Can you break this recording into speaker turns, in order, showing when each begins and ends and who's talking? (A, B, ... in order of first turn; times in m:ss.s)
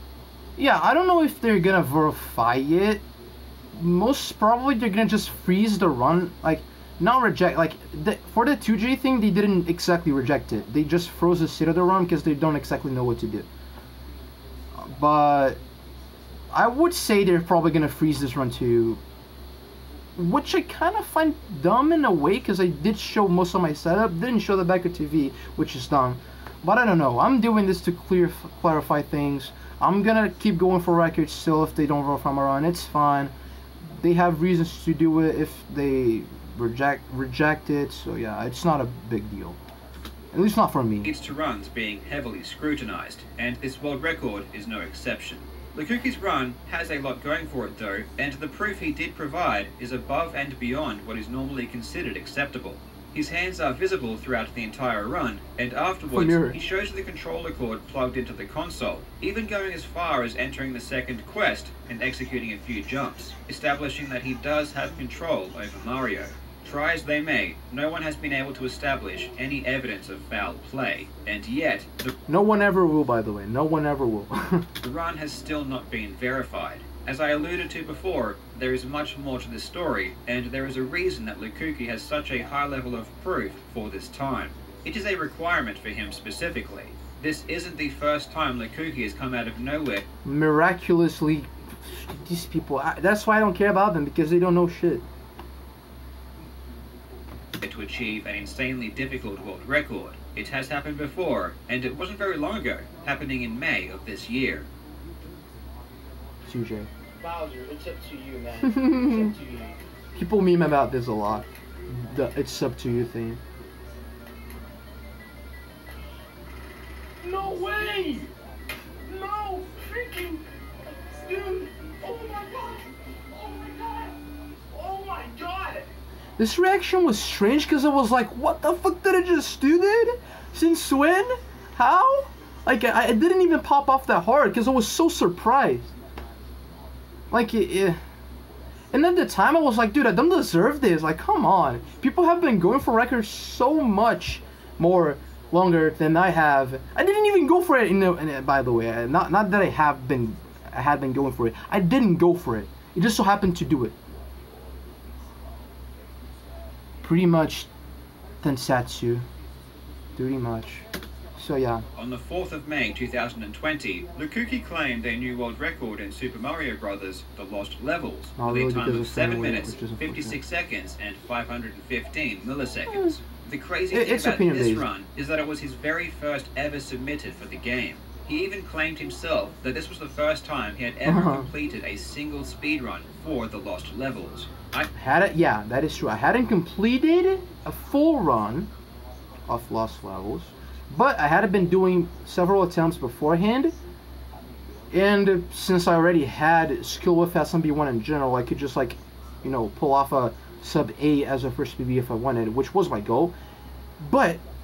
0:00.6-0:03.0 A
0:03.8-0:13.5 A
0:14.8-0:15.6 A
0:16.5-0:19.0 A
0:20.2-0:33.3 A
0:34.0-0:39.6 A
0:40.3-0:41.1 A
0:41.0-1:12.2 B
0:56.1-0:56.6 A
1:12.3-1:14.7 A
1:14.8-1:30.1 B
1:30.2-1:35.0 A
1:37.6-1:44.7 B
1:46.5-1:46.9 A
1:47.2-1:49.8 C
1:48.6-1:49.3 A
1:50.2-1:53.4 A
1:57.2-1:58.3 C
1:59.1-2:00.4 C
2:01.1-2:04.2 C
2:04.7-2:05.9 C
2:06.4-2:15.9 A
2:17.3-2:18.0 A
2:18.9-2:34.0 A
2:37.0-2:37.7 A
2:38.4-2:39.2 A
2:40.2-2:40.9 A
2:41.4-2:41.8 A
2:42.0-3:04.9 B
2:48.4-2:50.4 A
2:53.9-2:54.9 A
3:01.0-3:01.5 A
3:05.0-3:08.7 A
3:09.5-3:13.8 A
3:14.9-3:23.3 A
3:24.0-3:24.4 A